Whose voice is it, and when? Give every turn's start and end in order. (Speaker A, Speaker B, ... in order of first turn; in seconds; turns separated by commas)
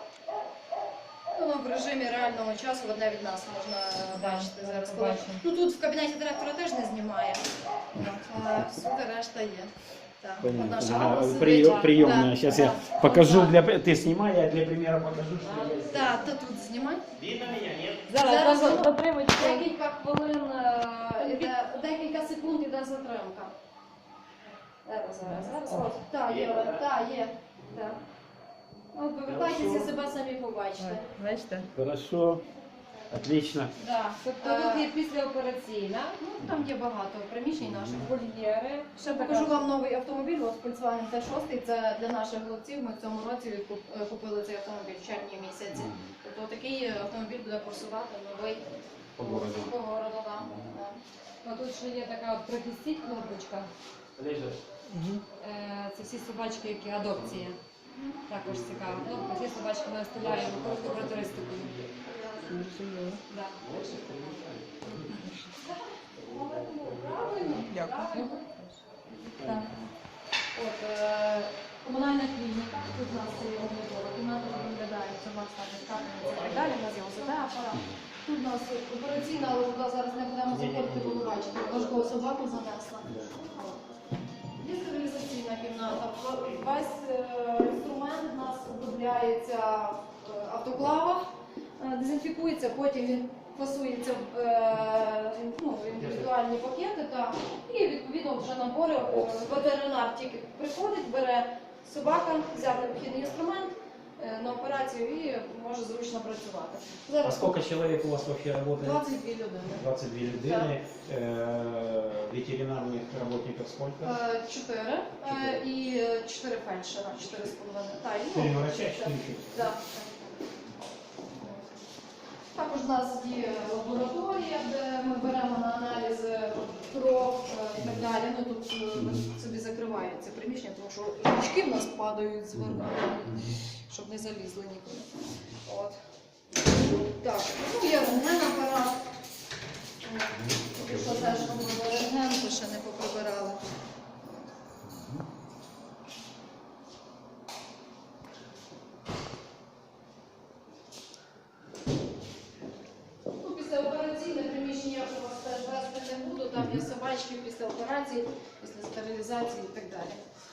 Speaker A: 1.3-13.6, Speaker B: 4.1-5.4, Speaker C: 10.4-16.3, Speaker B: 11.5-12.9, Speaker B: 15.4-15.9, Speaker A: 15.9-17.1, Speaker C: 17.1-18.1, Speaker B: 18.1-19.7, Speaker A: 18.2-23.5, Speaker B: 21.2-21.5, Speaker A: 24.8-28.0, Speaker B: 25.3-25.9, Speaker C: 26.2-26.9, Speaker A: 28.9-31.1, Speaker C: 29.2-29.9, Speaker B: 30.8-31.7, Speaker C: 31.7-32.4, Speaker C: 33.1-33.7, Speaker A: 33.8-34.9, Speaker B: 34.2-36.2, Speaker A: 36.2-38.1, Speaker C: 36.4-36.7, Speaker C: 37.6-38.1, Speaker B: 38.0-39.7, Speaker A: 39.0-48.6, Speaker C: 45.7-46.1, Speaker C: 49.2-49.7, Speaker A: 49.2-51.0, Speaker C: 50.4-50.8, Speaker B: 51.4-53.7, Speaker A: 53.0-53.4, Speaker C: 54.1-55.2, Speaker B: 55.4-57.6, Speaker C: 57.0-57.5, Speaker A: 57.9-58.2, Speaker B: 58.3-61.7, Speaker C: 58.4-59.5, Speaker C: 60.1-62.0, Speaker A: 62.0-62.7, Speaker B: 62.4-65.5, Speaker C: 63.6-65.3, Speaker A: 65.6-68.4, Speaker C: 66.2-67.6, Speaker B: 67.5-68.8, Speaker C: 69.1-69.9, Speaker A: 69.4-69.7, Speaker A: 70.5-83.8, Speaker C: 76.2-77.2, Speaker C: 77.7-78.0, Speaker C: 79.2-79.5, Speaker C: 80.5-82.2, Speaker C: 83.0-83.3, Speaker A: 84.5-107.6, Speaker C: 95.9-96.3, Speaker C: 99.1-99.5, Speaker C: 107.2-109.0, Speaker A: 108.8-110.7, Speaker C: 109.7-114.2, Speaker A: 114.0-120.2, Speaker C: 115.2-115.6, Speaker C: 118.3-119.7, Speaker A: 121.4-121.8, Speaker A: 122.5-136.0, Speaker C: 127.8-128.0, Speaker C: 128.9-129.2, Speaker C: 132.5-133.6, Speaker A: 136.6-139.0, Speaker A: 140.0-143.6, Speaker C: 140.3-141.8, Speaker A: 144.2-144.5, Speaker C: 144.8-145.2, Speaker A: 153.3-160.2, Speaker C: 156.6-156.8